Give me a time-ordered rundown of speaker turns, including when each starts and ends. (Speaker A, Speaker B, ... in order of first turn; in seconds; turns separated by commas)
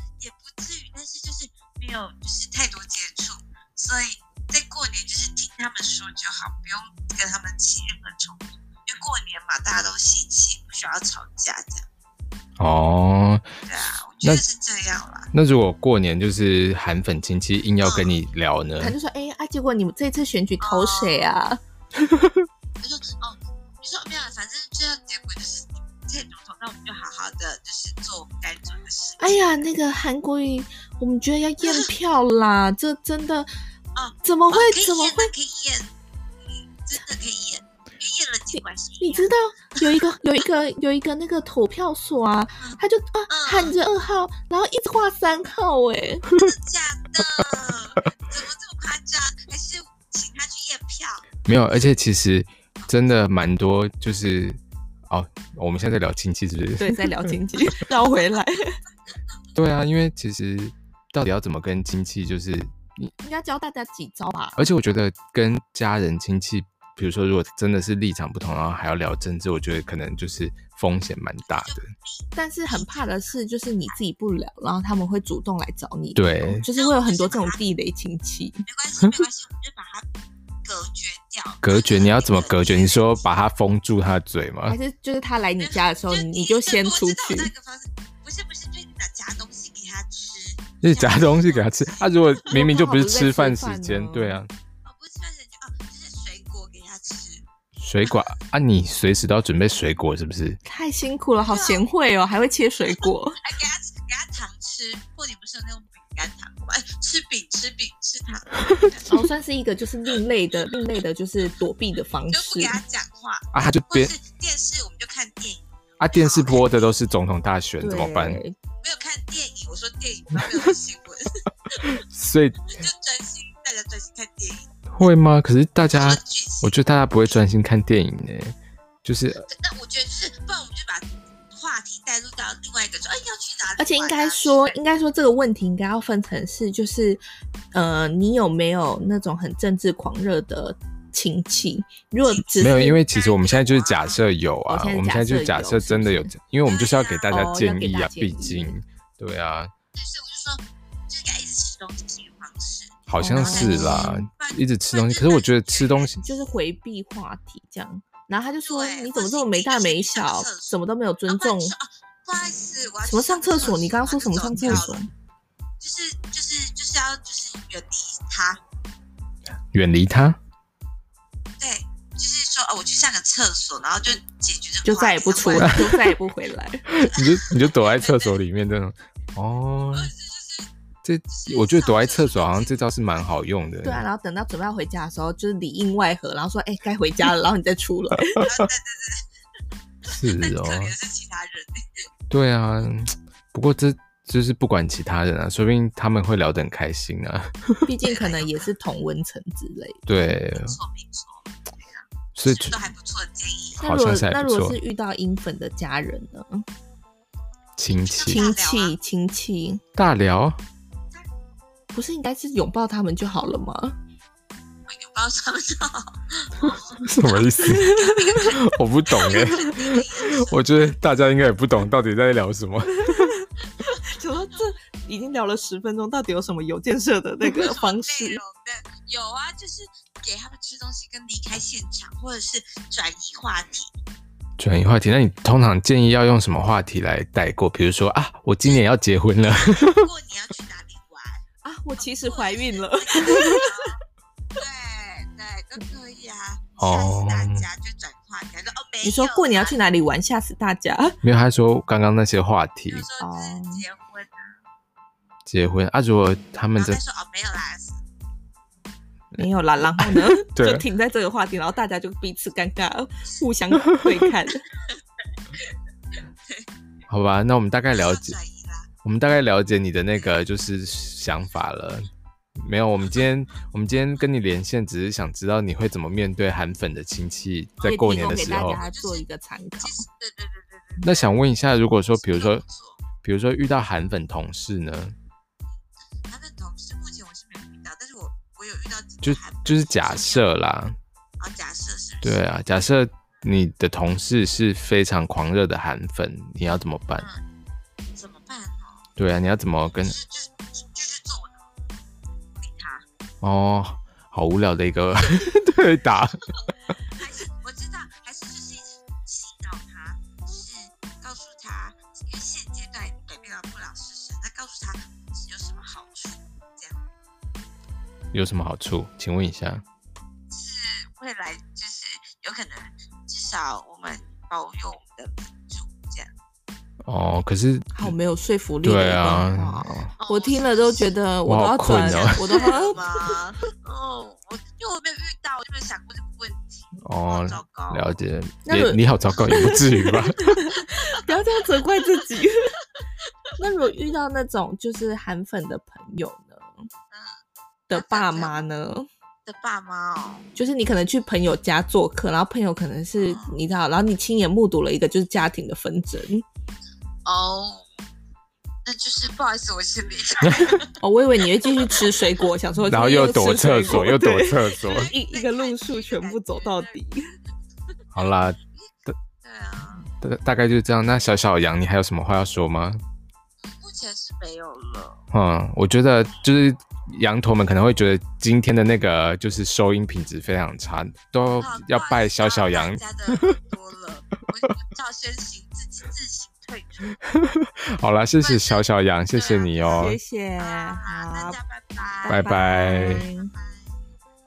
Speaker A: 0.2-11.8, Speaker B: 12.6-13.5, Speaker A: 13.7-15.3, Speaker B: 15.3-18.9, Speaker A: 17.8-18.2, Speaker C: 18.8-21.6, Speaker A: 20.6-21.3, Speaker A: 22.8-29.5, Speaker C: 29.2-33.5, Speaker A: 31.6-31.9, Speaker A: 34.0-35.9, Speaker C: 34.2-35.3, Speaker A: 36.4-39.8, Speaker C: 38.5-46.3, Speaker A: 42.6-43.8, Speaker A: 46.3-51.2, Speaker B: 51.5-57.3, Speaker C: 56.8-58.8, Speaker B: 59.5-63.1, Speaker C: 63.2-64.7, Speaker B: 64.6-71.9, Speaker A: 71.5-73.4, Speaker C: 72.3-78.6, Speaker B: 76.2-76.6, Speaker A: 76.7-77.6, Speaker A: 78.7-80.0, Speaker A: 80.6-83.4, Speaker B: 81.6-84.8, Speaker C: 84.7-87.5, Speaker A: 85.6-92.5, Speaker B: 90.8-94.5, Speaker C: 92.5-94.4, Speaker A: 94.8-97.5, Speaker B: 97.8-100.6, Speaker A: 98.0-98.3, Speaker C: 100.6-103.4, Speaker A: 101.5-101.8, Speaker A: 103.4-109.2, Speaker C: 109.1-112.8, Speaker A: 112.3-117.0, Speaker B: 113.5-114.1, Speaker B: 116.0-118.4, Speaker C: 117.8-118.5, Speaker A: 118.8-122.0, Speaker B: 121.8-122.8, Speaker A: 122.7-124.7, Speaker B: 124.9-129.4, Speaker A: 125.9-126.7, Speaker A: 129.4-134.7, Speaker C: 133.8-137.2, Speaker C: 137.7-143.0, Speaker A: 142.3-144.2, Speaker B: 142.6-149.7, Speaker C: 144.7-146.3, Speaker A: 146.6-147.4, Speaker C: 147.3-148.7, Speaker A: 149.9-156.3, Speaker B: 153.1-156.2, Speaker C: 153.2-154.2, Speaker C: 156.2-161.8, Speaker A: 158.6-160.8, Speaker A: 161.3-165.0, Speaker C: 163.0-165.1, Speaker B: 164.6-164.9, Speaker A: 165.8-168.6, Speaker B: 169.7-170.4, Speaker A: 171.6-176.0, Speaker C: 174.8-176.9, Speaker B: 175.6-175.9, Speaker B: 176.9-180.1, Speaker A: 177.1-178.4, Speaker A: 179.9-180.7, Speaker B: 181.0-184.0, Speaker A: 181.3-183.4, Speaker C: 183.8-188.4, Speaker A: 188.3-189.2, Speaker A: 190.0-192.0, Speaker B: 190.0-190.9, Speaker B: 192.3-197.8, Speaker C: 197.8-200.0, Speaker A: 198.0-198.7, Speaker B: 200.1-200.8, Speaker A: 200.5-203.8, Speaker B: 202.3-202.8, Speaker B: 203.8-204.8, Speaker C: 203.8-206.6, Speaker B: 207.8-208.4, Speaker A: 207.9-208.9, Speaker C: 208.3-209.8, Speaker B: 209.9-210.6, Speaker C: 211.9-213.9, Speaker A: 214.9-221.0, Speaker B: 216.6-223.3, Speaker C: 217.6-218.5, Speaker C: 223.0-228.4, Speaker A: 227.4-233.9, Speaker B: 234.6-240.1, Speaker A: 239.4-241.4, Speaker C: 241.6-243.8, Speaker A: 242.0-244.0, Speaker A: 244.6-249.8, Speaker B: 246.8-247.7, Speaker C: 249.0-251.2, Speaker B: 251.2-253.0, Speaker A: 252.9-254.5, Speaker C: 253.2-253.8, Speaker B: 255.4-257.0, Speaker A: 256.8-258.0, Speaker C: 259.3-264.6, Speaker B: 260.0-260.8, Speaker B: 267.1-268.4, Speaker A: 267.9-268.9, Speaker B: 269.0-278.8, Speaker A: 277.8-279.2, Speaker C: 277.8-280.0, Speaker A: 279.8-281.5, Speaker B: 281.0-282.6, Speaker A: 282.1-283.0, Speaker B: 283.2-285.1, Speaker A: 286.2-290.5, Speaker B: 289.2-291.0, Speaker A: 291.4-292.5, Speaker B: 292.2-297.3, Speaker A: 297.1-297.4, Speaker A: 298.1-299.1, Speaker B: 299.2-300.1, Speaker A: 299.9-301.6, Speaker A: 302.6-303.0, Speaker B: 303.4-306.5, Speaker A: 307.1-317.0, Speaker B: 318.3-319.8, Speaker A: 320.5-326.3, Speaker B: 327.0-328.1, Speaker C: 327.9-333.3, Speaker B: 328.8-330.1, Speaker A: 330.2-331.1, Speaker B: 331.4-332.6, Speaker A: 331.9-338.2, Speaker B: 337.0-340.6, Speaker C: 338.6-342.7, Speaker A: 340.8-341.4, Speaker C: 343.6-346.9, Speaker A: 347.1-347.4, Speaker C: 347.9-349.1, Speaker A: 347.9-348.6, Speaker A: 349.4-350.5, Speaker C: 350.6-356.4, Speaker A: 353.2-353.6, Speaker A: 357.2-357.8, Speaker A: 358.8-360.9, Speaker B: 360.4-360.8, Speaker C: 361.0-367.3, Speaker B: 362.8-365.1, Speaker A: 364.7-367.0, Speaker B: 368.1-369.1, Speaker A: 368.7-370.1, Speaker B: 370.1-373.0, Speaker A: 373.6-375.2, Speaker B: 375.3-383.6, Speaker A: 381.6-387.1, Speaker B: 387.2-390.2, Speaker A: 388.4-388.8, Speaker A: 389.3-393.9, Speaker C: 389.9-391.6, Speaker C: 392.2-393.5, Speaker B: 392.3-393.2